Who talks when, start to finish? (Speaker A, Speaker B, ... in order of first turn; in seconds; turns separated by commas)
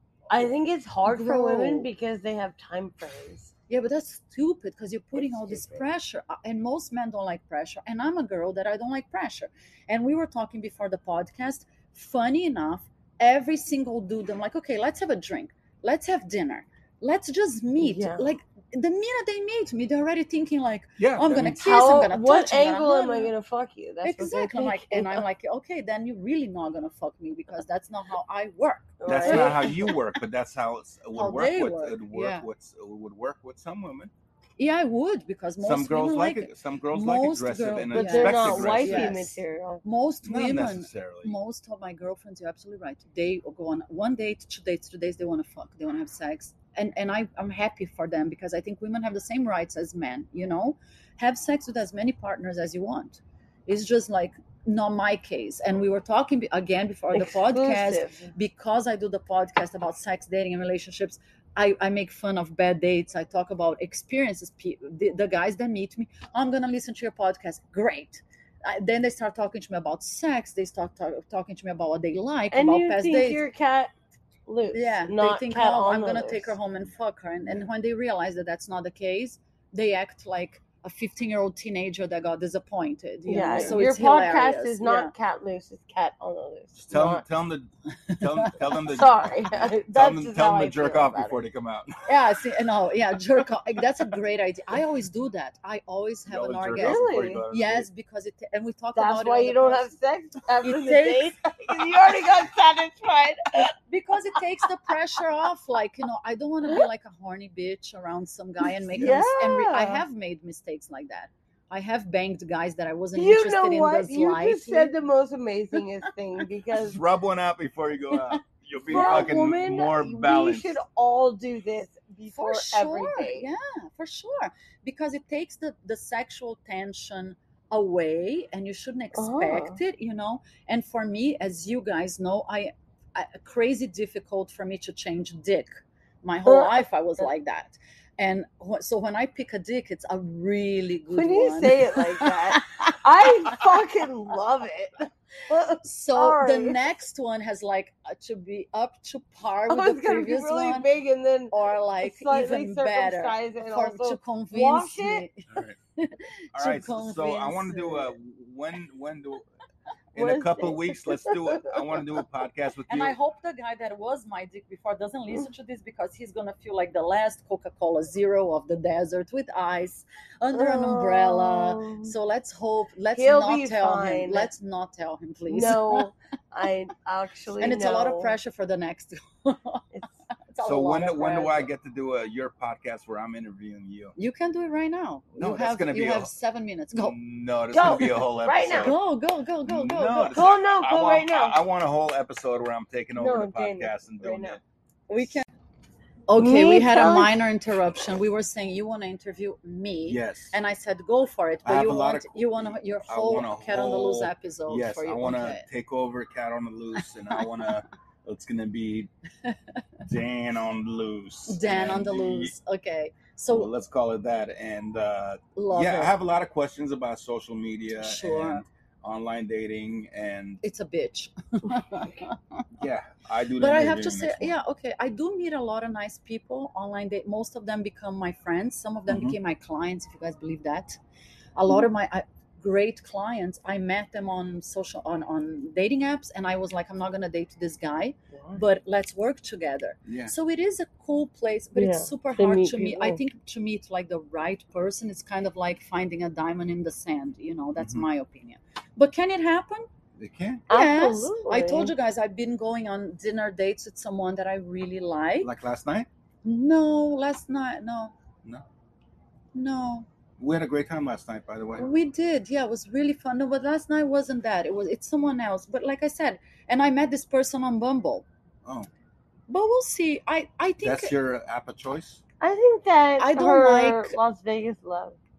Speaker A: 0.3-3.5, Speaker B: 1.0-1.9, Speaker B: 3.7-23.3, Speaker A: 5.2-5.8, Speaker A: 17.8-18.3, Speaker C: 21.0-21.6, Speaker A: 21.6-25.2, Speaker B: 24.0-29.9, Speaker A: 29.0-29.9, Speaker C: 29.1-34.1, Speaker B: 31.1-32.5, Speaker B: 34.6-73.4, Speaker C: 35.6-39.2, Speaker A: 37.9-39.8, Speaker C: 40.2-41.3, Speaker A: 57.1-58.3, Speaker A: 72.5-73.9, Speaker A: 74.5-76.5, Speaker B: 74.7-85.1, Speaker A: 83.2-87.2, Speaker C: 86.7-92.1, Speaker B: 88.1-88.5, Speaker A: 88.7-91.4, Speaker B: 92.0-100.0, Speaker C: 96.3-97.9, Speaker A: 96.8-97.4, Speaker A: 98.9-103.7, Speaker B: 100.6-101.9, Speaker B: 103.9-114.9, Speaker A: 108.9-110.0, Speaker A: 113.1-117.0, Speaker C: 116.7-120.8, Speaker B: 118.1-119.3, Speaker A: 118.9-123.5, Speaker B: 122.3-143.6, Speaker A: 129.1-129.8, Speaker A: 136.4-136.8, Speaker A: 141.1-146.8, Speaker B: 145.8-150.9, Speaker A: 149.7-155.2, Speaker B: 151.5-158.1, Speaker C: 155.5-155.8, Speaker C: 156.5-159.5, Speaker C: 160.1-163.2, Speaker A: 160.1-162.2, Speaker B: 162.9-176.1, Speaker A: 170.5-172.1, Speaker A: 173.1-174.5, Speaker A: 175.5-178.3, Speaker B: 177.6-179.8, Speaker B: 180.5-181.7, Speaker C: 180.6-184.1, Speaker B: 184.2-187.2, Speaker C: 185.3-186.3, Speaker C: 186.9-188.9, Speaker A: 187.7-188.9, Speaker B: 188.8-190.4, Speaker C: 189.6-194.6, Speaker A: 190.3-191.6, Speaker A: 193.2-194.6, Speaker B: 195.1-195.4, Speaker B: 196.3-205.7, Speaker A: 196.3-197.4, Speaker C: 200.0-200.5, Speaker C: 201.6-209.1, Speaker C: 210.0-212.5, Speaker B: 211.5-213.7, Speaker C: 213.5-220.6, Speaker B: 215.5-216.1, Speaker B: 217.9-218.6, Speaker B: 220.6-222.6, Speaker C: 222.8-224.5, Speaker B: 223.6-231.0, Speaker C: 229.1-229.4, Speaker B: 231.6-249.9, Speaker A: 238.3-238.6, Speaker C: 240.1-240.3, Speaker A: 241.8-243.2, Speaker C: 247.8-248.1, Speaker C: 250.2-250.7, Speaker A: 250.7-251.9, Speaker B: 250.7-255.5, Speaker C: 255.4-256.1, Speaker B: 256.4-258.1, Speaker B: 259.5-260.1, Speaker C: 260.4-261.9, Speaker B: 261.8-268.2, Speaker B: 269.5-271.1, Speaker C: 270.8-272.2, Speaker A: 272.4-275.2, Speaker B: 273.2-274.1